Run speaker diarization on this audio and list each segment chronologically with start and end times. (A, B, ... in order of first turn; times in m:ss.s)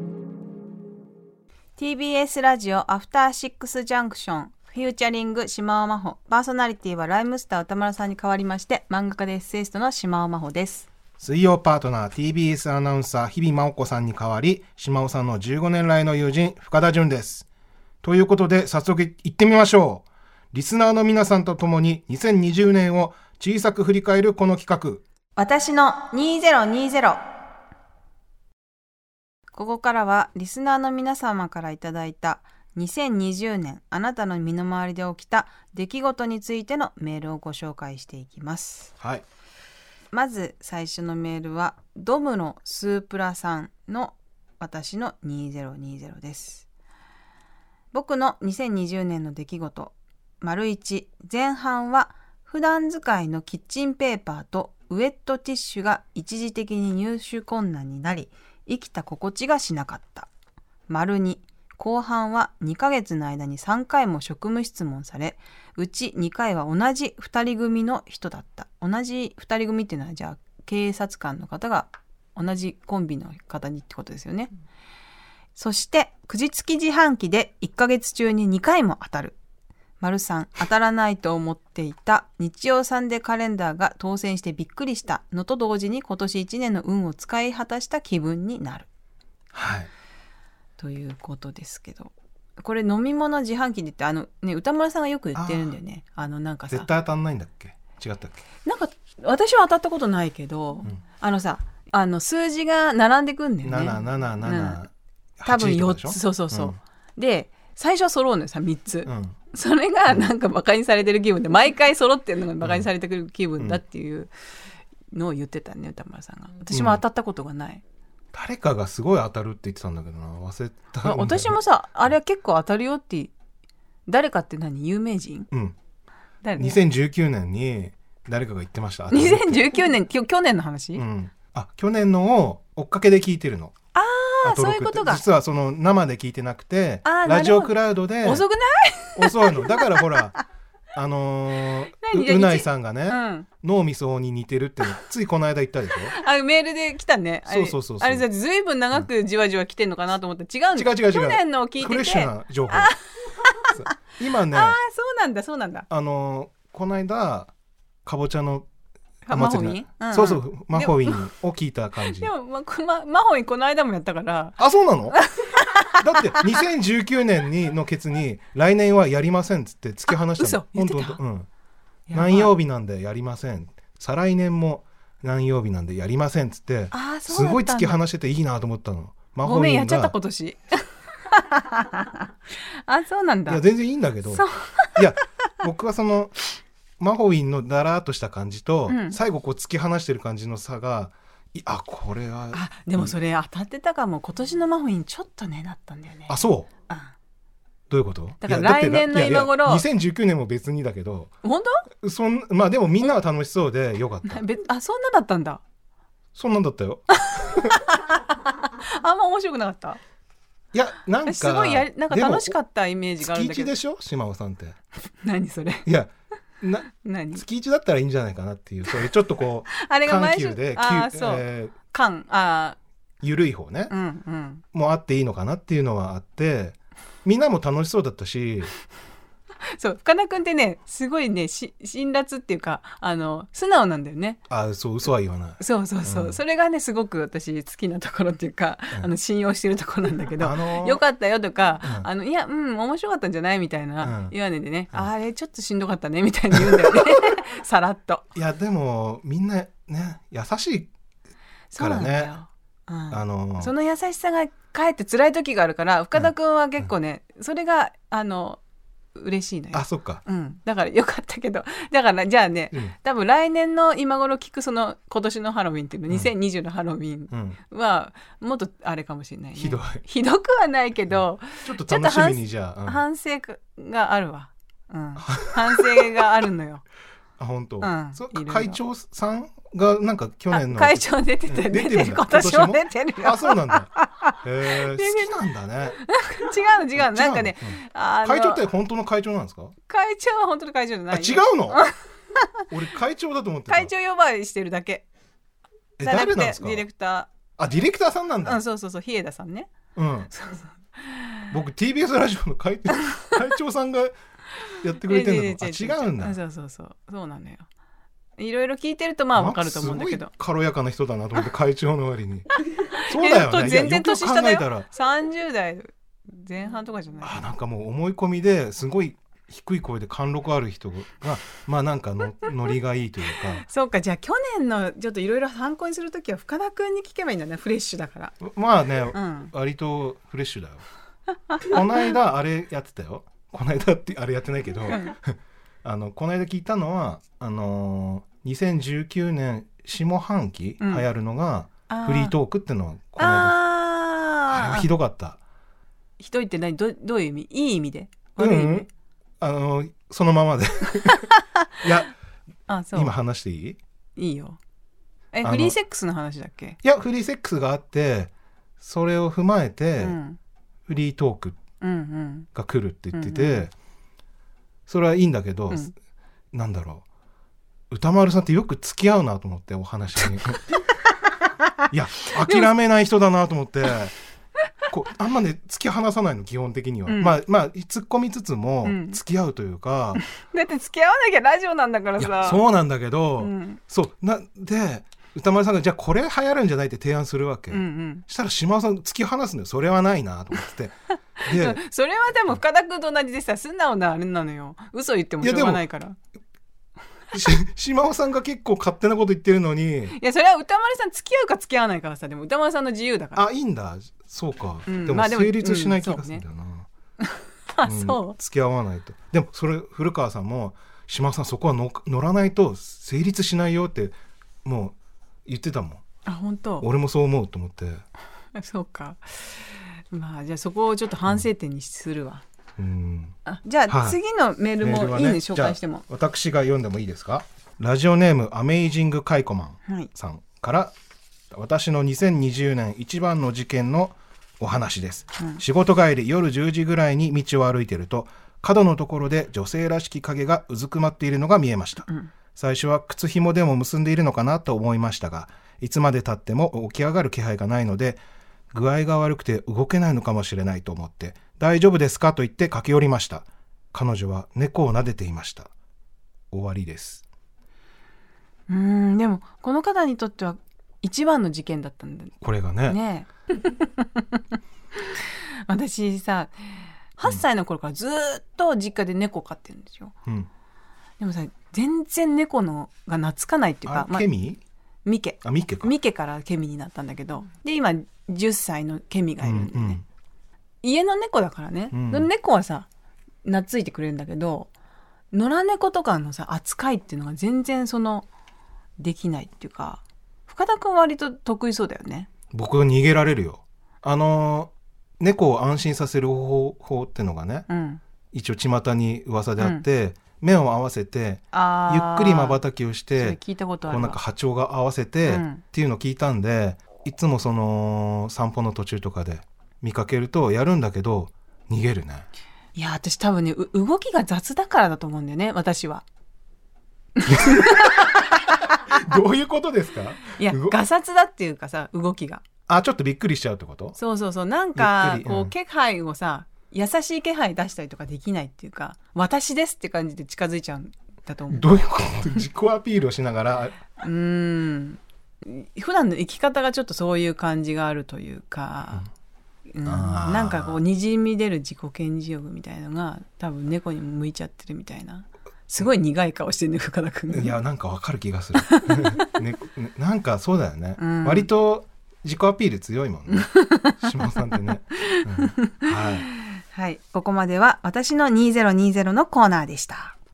0:01.8-0:10.9 A
0:11.2-0:17.5 B
0:18.0-0:25.0 B
0:25.4-0:27.2 A
0:29.5-0:38.9 A
0:40.1-0:46.7 A
0:47.9-1:00.3 A
1:00.9-1:14.5 A
1:15.5-1:19.4 A
1:20.0-1:28.9 A
1:29.5-1:29.9 B
1:30.8-1:36.9 A
1:35.3-1:35.8 B
1:36.7-1:38.4 B
1:38.6-1:44.8 A
1:43.6-1:46.8 B
1:45.4-1:54.3 A
1:49.0-1:49.4 B
1:52.6-1:52.9 B
1:55.1-1:57.8 A
1:56.7-1:57.0 B
1:58.3-2:01.6 B
2:01.0-2:03.3 A
2:04.0-2:05.5 A
2:06.4-2:06.8 A
2:06.6-2:09.8 B
2:09.1-2:11.0 A
2:10.9-2:13.7 B
2:13.9-2:15.2 A
2:14.4-2:18.4 B
2:17.0-2:20.2 A
2:19.2-2:20.4 B
2:20.9-2:26.2 B
2:22.0-2:23.5 A
2:26.1-2:33.9 A
2:27.5-2:28.2 B
2:30.7-2:33.0 B
2:33.7-2:34.8 B
2:34.5-2:35.9 A
2:35.9-2:37.5 B
2:38.0-2:38.7 B
2:39.2-2:41.2 A
2:39.3-2:42.3 B
2:42.0-2:44.6 A
2:44.6-2:45.2 B
2:45.1-2:46.5 A
2:46.0-2:51.5 B
2:50.1-2:51.2 A
2:52.1-2:52.5 A
2:52.1-3:00.1 B
2:56.9-2:58.0 A
2:59.4-3:03.6 A
3:03.5-3:06.4 B
3:04.3-3:05.0 A
3:07.0-3:13.1 B
3:08.9-3:09.2 A
3:12.5-3:17.1 A
3:16.3-3:16.7 B
3:17.9-3:21.3 B
3:18.4-3:19.8 A
3:21.4-3:21.9 A
3:22.0-3:24.4 B
3:24.2-3:25.6 A
3:26.3-3:27.8 B
3:27.2-3:30.0 A
3:30.7-3:32.6 B
3:31.2-3:33.7 A
3:33.2-3:34.8 B
3:35.2-3:35.9 A
3:35.8-3:41.7 B
3:37.0-3:37.4 A
3:39.7-3:42.8 A
3:43.2-3:43.9 B
3:43.9-3:44.6 A
3:44.7-3:48.7 B
3:49.7-3:54.4 A
3:54.5-3:56.4 B
3:55.6-4:08.2 A
4:00.4-4:01.0 B
4:04.0-4:04.3 B
4:08.3-4:10.9 B
4:11.7-4:18.6 A
4:11.8-4:12.3 B
4:13.1-4:13.7 B
4:19.2-4:36.8 A
4:19.7-4:20.2 B
4:27.3-4:27.6 B
4:29.6-4:30.0 B
4:31.2-4:33.0 B
4:35.2-4:36.1 B
4:37.4-4:46.0 B
4:37.8-4:38.8 A
4:40.5-4:45.3 A
4:46.0-4:48.6 A
4:47.0-4:49.7 B
4:49.9-4:52.4 A
4:51.1-4:51.8 B
4:52.7-4:53.9 B
4:53.7-4:55.0 A
4:56.0-4:56.8 B
4:56.0-4:57.3 A
4:57.6-4:58.6 B
4:58.4-4:59.7 A
5:00.0-5:00.3 B
5:00.3-5:01.5 A
5:01.5-5:04.1 B
5:04.8-5:06.4 B
5:05.0-5:07.6 A
5:08.4-5:10.3 A
5:09.3-5:12.5 B
5:12.9-5:17.4 A
5:13.0-5:14.8 B
5:17.2-5:23.6 B
5:23.6-5:28.4 A
5:28.4-5:30.8 B
5:29.1-5:29.5 A
5:31.6-5:43.6 B
5:40.8-5:41.0 A
5:41.9-5:42.3 A
5:43.2-5:44.9 A
5:44.5-5:45.4 B
5:46.2-5:48.9 A
5:48.4-5:48.9 B
5:49.4-5:52.1 B
5:52.7-5:53.1 A
5:52.9-5:53.8 B
5:54.2-5:54.6 A
5:55.3-5:56.8 A
5:55.4-5:55.8 B
5:56.8-6:00.2 B
6:00.0-6:00.4 A
6:00.9-6:01.6 B
6:01.8-6:02.5 A
6:02.5-6:03.7 B
6:03.1-6:03.7 A
6:04.9-6:05.9 B
6:06.5-6:07.0 B
6:07.9-6:10.6 B
6:11.9-6:14.1 B
6:12.4-6:12.7 A
6:14.9-6:20.2 B
6:17.1-6:17.4 A
6:18.8-6:19.2 A
6:20.1-6:22.6 A
6:22.2-6:31.8 B
6:23.4-6:23.8 A
6:27.7-6:28.2 A
6:31.4-6:36.2 A
6:35.4-6:35.8 B
6:37.3-6:40.2 B
6:40.1-6:43.4 A
6:43.4-6:46.9 B
6:44.9-6:46.4 A
6:47.2-6:48.4 A
6:47.8-6:56.0 B
6:56.2-6:56.9 A
6:56.8-6:58.0 B
6:58.5-7:02.4 A
7:02.8-7:03.4 B
7:03.4-7:06.0 A
7:03.9-7:04.2 B
7:04.8-7:10.9 B
7:11.5-7:35.7 B
7:22.1-7:22.3 A
7:36.5-7:37.2 B
7:38.7-7:44.4 A
7:42.4-7:43.0 B
7:45.1-7:50.1 A
7:51.2-7:54.3 A
7:53.8-7:54.6 B
7:55.0-8:00.0 A
7:55.4-7:55.9 B
7:59.4-8:00.0 B
8:00.8-8:02.9 A
8:01.9-8:02.3 B
8:03.4-8:04.7 A
8:05.3-8:08.3 A
8:09.0-8:12.3 A
8:12.5-8:17.7 B
8:17.7-8:18.0 A
8:18.3-8:32.3 B
8:19.6-8:19.8 A
8:21.5-8:22.6 A
8:23.2-8:24.2 A
8:25.2-8:25.6 A
8:32.7-8:36.0 A
8:37.2-8:38.1 A
8:37.6-8:37.8 B
8:38.9-8:40.8 B
8:40.3-8:42.4 A
8:42.7-8:44.0 B
8:44.0-8:51.8 A
8:44.8-8:45.5 B
8:51.5-8:53.8 B
8:54.0-8:59.1 A
8:59.7-9:07.6 A
8:59.8-9:00.8 B
9:07.3-9:16.3 B
9:08.6-9:09.3 A
9:11.0-9:11.5 A
9:13.3-9:14.0 A
9:15.0-9:20.2 A